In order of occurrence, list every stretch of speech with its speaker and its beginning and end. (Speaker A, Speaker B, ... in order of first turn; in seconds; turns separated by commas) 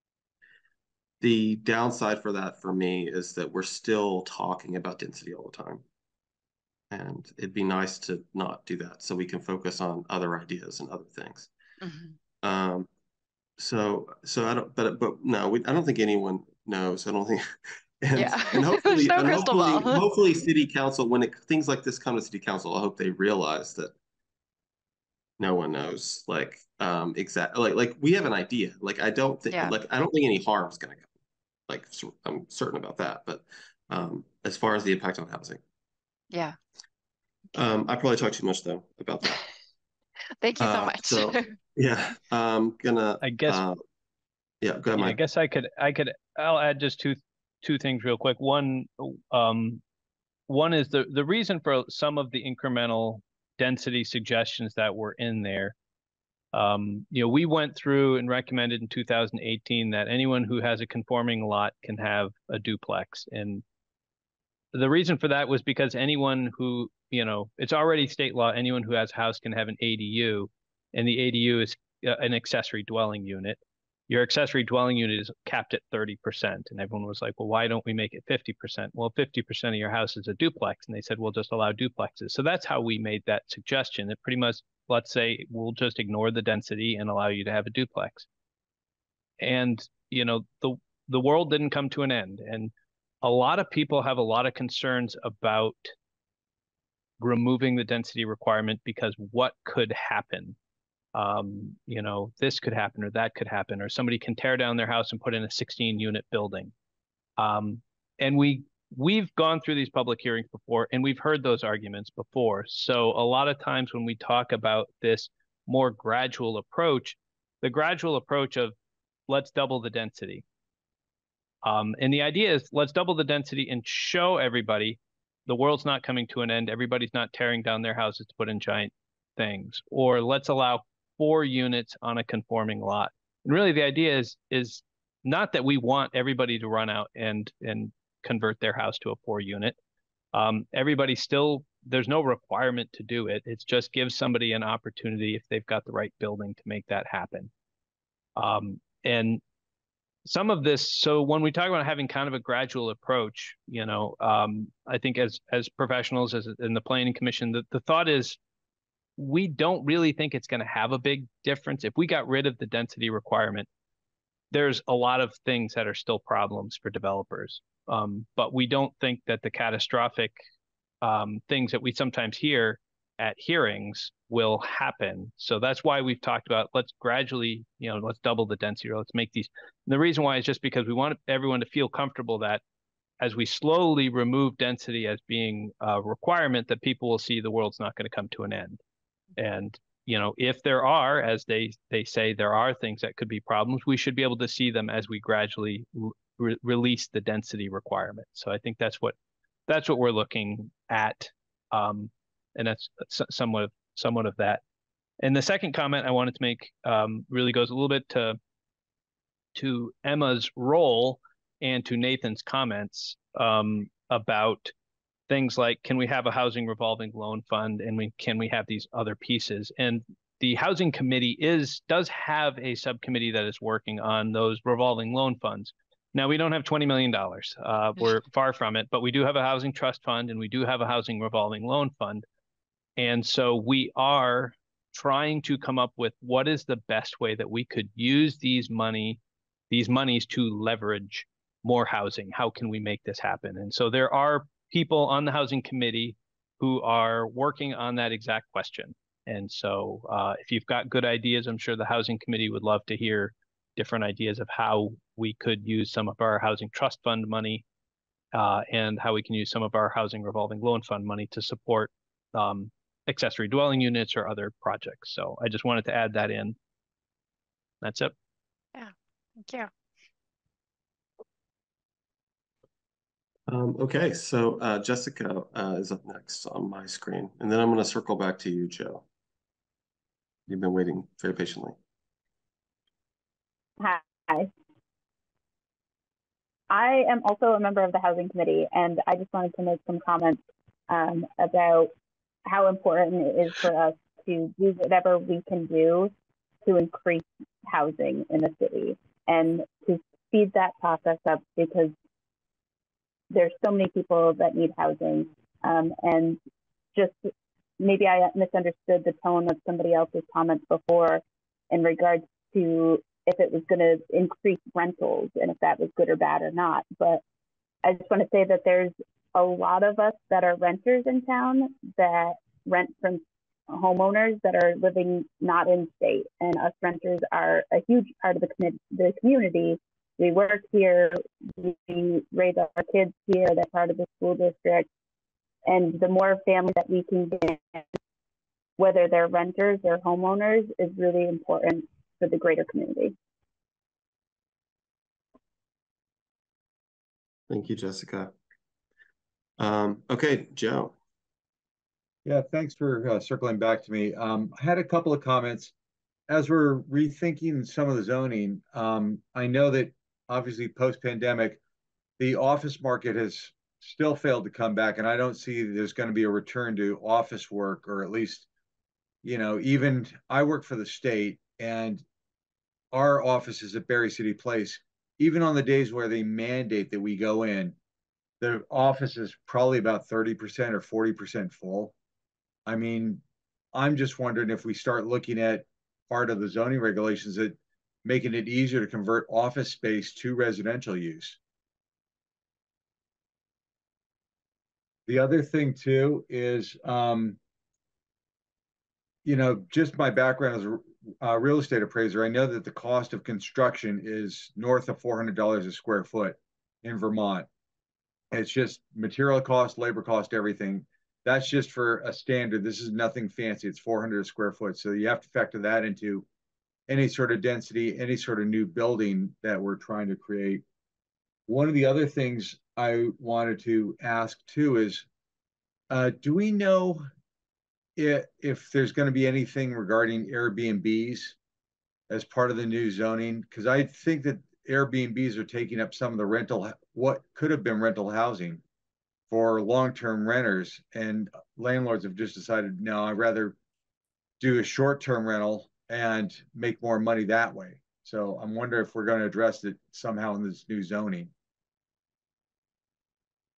Speaker A: 1.2-5.8, Speaker A: 6.9-11.5, Speaker B: 11.8-12.2, Speaker A: 12.4-12.9, Speaker A: 13.6-17.4, Speaker A: 18.0-23.9, Speaker B: 18.1-20.1, Speaker A: 25.4-31.0, Speaker A: 31.7-35.6, Speaker B: 36.3-36.5, Speaker A: 37.5-39.4, Speaker B: 40.4-41.5, Speaker A: 40.6-43.8, Speaker C: 43.2-43.6, Speaker A: 44.6-45.2, Speaker C: 45.0-49.8, Speaker C: 50.5-55.7, Speaker C: 56.5-63.6, Speaker C: 64.7-88.3, Speaker C: 89.4-95.9, Speaker C: 97.2-100.5, Speaker C: 101.1-106.7, Speaker C: 107.4-118.7, Speaker C: 119.3-120.4, Speaker C: 121.6-139.8, Speaker C: 140.3-147.5, Speaker C: 148.3-149.4, Speaker C: 150.2-158.4, Speaker C: 159.2-163.7, Speaker C: 164.5-170.4, Speaker C: 171.0-182.6, Speaker C: 183.2-188.8, Speaker C: 189.4-199.1, Speaker C: 199.7-204.6, Speaker C: 205.2-208.4, Speaker C: 209.5-214.7, Speaker C: 215.3-232.2, Speaker C: 233.0-239.2, Speaker C: 239.7-257.6, Speaker C: 258.3-266.6, Speaker C: 267.8-268.1, Speaker B: 268.7-269.7, Speaker A: 273.5-279.0, Speaker A: 280.5-281.7, Speaker D: 283.8-284.5, Speaker D: 286.7-291.9, Speaker D: 292.5-296.1, Speaker D: 296.6-301.9, Speaker D: 303.3-306.4, Speaker D: 307.8-317.2, Speaker D: 317.8-334.9, Speaker D: 335.7-337.9, Speaker D: 338.8-343.1, Speaker A: 347.5-348.3, Speaker A: 349.6-350.9, Speaker E: 352.2-355.7, Speaker E: 356.3-361.6, Speaker E: 362.2-368.4, Speaker E: 369.2-372.0, Speaker E: 372.9-377.7, Speaker E: 378.4-381.9, Speaker E: 382.6-383.2, Speaker E: 383.7-391.4, Speaker E: 395.1-397.4, Speaker E: 399.2-407.5, Speaker E: 408.3-416.2, Speaker E: 416.9-420.6, Speaker E: 421.5-425.0, Speaker E: 425.9-427.0, Speaker E: 427.9-431.3, Speaker E: 432.1-438.6, Speaker E: 439.3-443.6, Speaker E: 444.4-451.3